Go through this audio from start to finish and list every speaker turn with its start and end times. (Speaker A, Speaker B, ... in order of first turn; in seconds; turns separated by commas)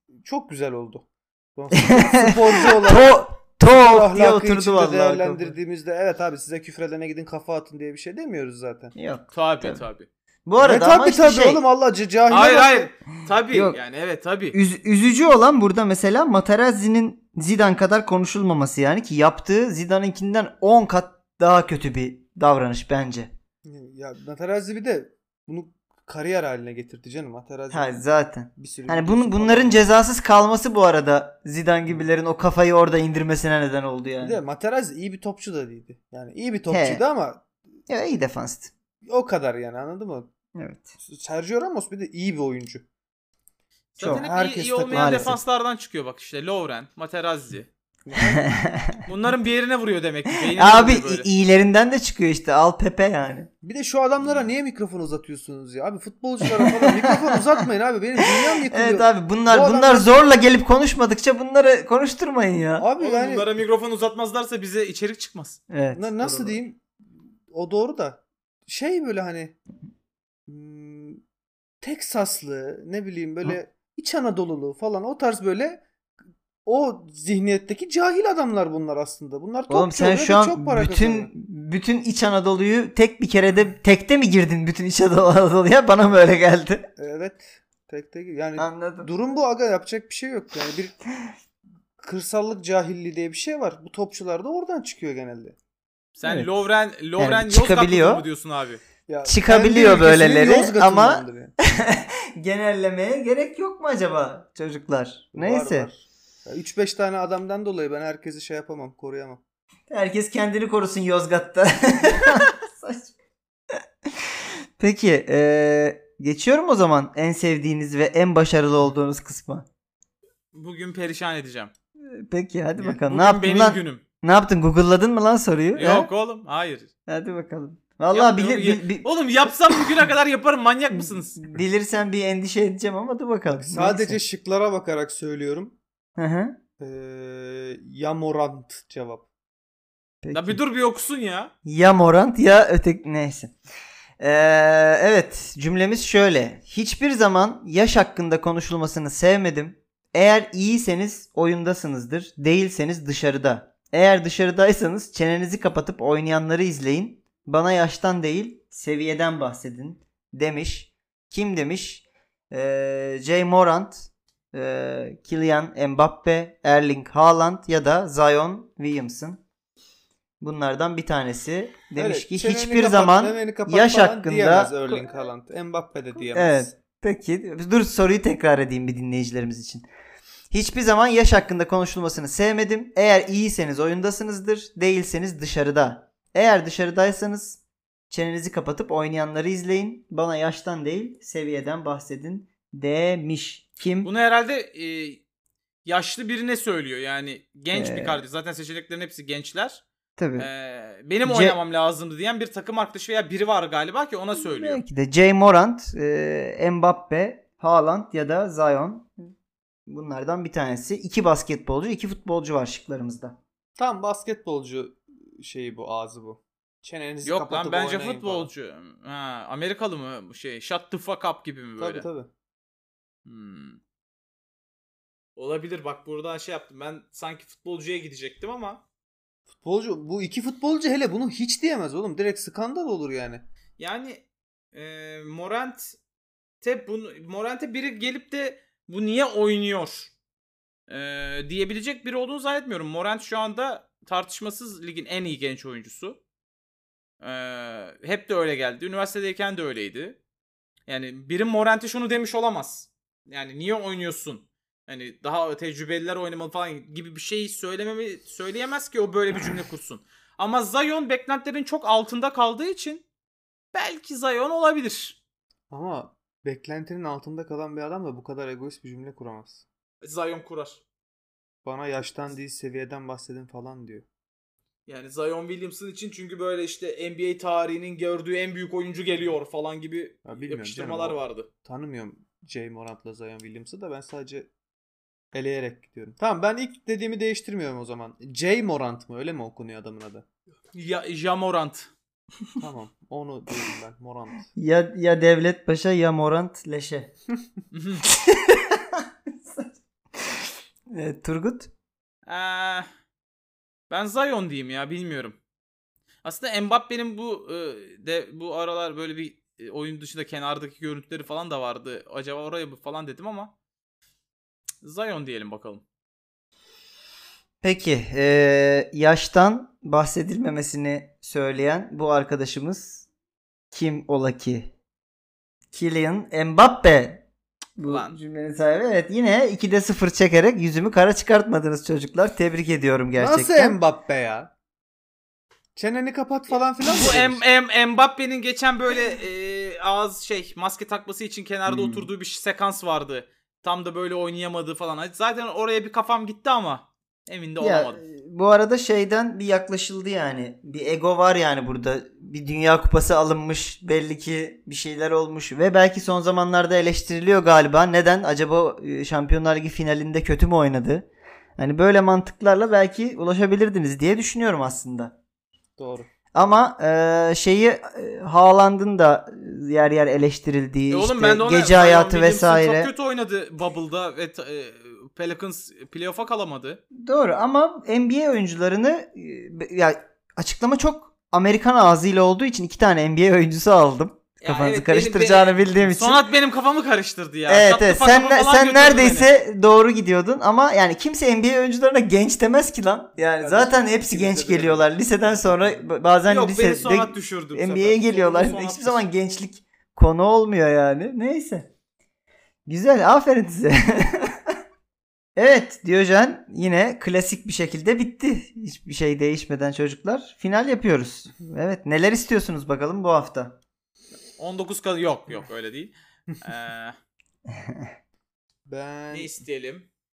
Speaker A: 0.2-8.9, Speaker B: 1.8-5.5, Speaker B: 8.9-9.8, Speaker C: 9.3-10.1, Speaker B: 10.4-11.6, Speaker A: 10.6-12.9, Speaker C: 12.3-14.6, Speaker B: 13.5-13.8, Speaker B: 14.5-23.3, Speaker A: 23.6-28.0, Speaker B: 27.7-34.4, Speaker A: 28.6-29.9, Speaker A: 34.2-37.4, Speaker B: 36.7-37.0, Speaker B: 37.9-38.7, Speaker A: 39.0-40.3, Speaker B: 40.5-40.9, Speaker A: 41.0-42.8, Speaker C: 43.9-47.7, Speaker A: 44.0-45.3, Speaker B: 44.9-45.4, Speaker A: 48.0-48.5, Speaker B: 48.3-49.0, Speaker C: 49.0-51.3, Speaker B: 50.5-53.5, Speaker A: 53.6-60.1, Speaker B: 56.4-57.6, Speaker B: 58.2-62.9, Speaker A: 62.8-63.6, Speaker C: 63.0-65.6, Speaker B: 65.7-66.6, Speaker A: 65.9-66.8, Speaker A: 67.5-69.5, Speaker A: 70.5-71.2, Speaker A: 71.8-75.8, Speaker A: 76.6-81.3, Speaker B: 79.7-86.9, Speaker A: 87.0-91.0, Speaker B: 88.6-89.1, Speaker A: 92.0-95.5, Speaker C: 96.2-98.8, Speaker B: 96.2-96.5, Speaker B: 97.2-98.2, Speaker A: 99.1-101.5, Speaker B: 99.2-105.9, Speaker A: 105.3-109.4, Speaker B: 109.9-113.1, Speaker B: 113.7-119.7, Speaker C: 120.5-121.7, Speaker B: 122.0-126.1, Speaker C: 122.8-124.0, Speaker C: 125.7-126.9, Speaker B: 127.1-129.1, Speaker C: 128.1-131.4, Speaker B: 129.7-129.9, Speaker B: 130.9-134.2, Speaker A: 133.5-135.8, Speaker B: 136.2-136.6, Speaker A: 136.8-139.3, Speaker B: 140.2-140.6, Speaker C: 140.3-141.5, Speaker B: 141.6-143.5, Speaker B: 144.2-169.4, Speaker B: 170.4-175.1, Speaker A: 171.9-176.7, Speaker B: 176.1-179.9, Speaker B: 180.5-194.1, Speaker C: 194.0-195.2, Speaker C: 195.8-199.8, Speaker B: 197.7-198.2, Speaker B: 200.2-200.5, Speaker C: 200.4-204.8, Speaker B: 201.2-201.6, Speaker B: 204.3-209.1, Speaker B: 209.9-213.4, Speaker A: 213.8-218.5, Speaker C: 217.2-222.1, Speaker A: 221.8-222.3, Speaker C: 223.2-223.8, Speaker C: 225.3-228.8, Speaker A: 229.6-233.4, Speaker C: 233.8-236.0, Speaker C: 236.6-240.1, Speaker C: 240.9-246.2, Speaker C: 247.2-250.2, Speaker C: 250.9-263.0, Speaker C: 263.7-265.2, Speaker A: 265.7-269.6, Speaker C: 270.0-270.8, Speaker A: 271.6-274.0, Speaker C: 274.9-281.5, Speaker A: 280.2-284.5, Speaker A: 285.3-290.2, Speaker C: 290.7-291.9, Speaker A: 292.6-294.5, Speaker B: 294.6-297.1, Speaker C: 297.7-298.1, Speaker B: 298.1-301.7, Speaker C: 302.3-302.9, Speaker C: 303.9-305.4, Speaker C: 306.2-313.5, Speaker C: 314.8-315.8, Speaker B: 317.6-323.1, Speaker B: 323.7-324.7, Speaker B: 325.7-327.2, Speaker B: 327.8-333.8, Speaker C: 327.8-328.2, Speaker A: 333.2-334.5, Speaker A: 335.8-337.4, Speaker C: 336.8-348.0, Speaker B: 341.7-342.1, Speaker B: 347.6-365.1, Speaker A: 365.8-366.1, Speaker B: 366.3-372.9, Speaker C: 370.9-376.8, Speaker B: 376.9-386.2, Speaker C: 384.4-389.3, Speaker B: 387.5-401.7, Speaker A: 393.2-395.8, Speaker C: 396.3-399.1, Speaker B: 402.6-404.5, Speaker B: 405.4-413.6, Speaker C: 414.4-416.9, Speaker B: 417.5-417.9, Speaker A: 418.7-419.4, Speaker C: 419.1-419.9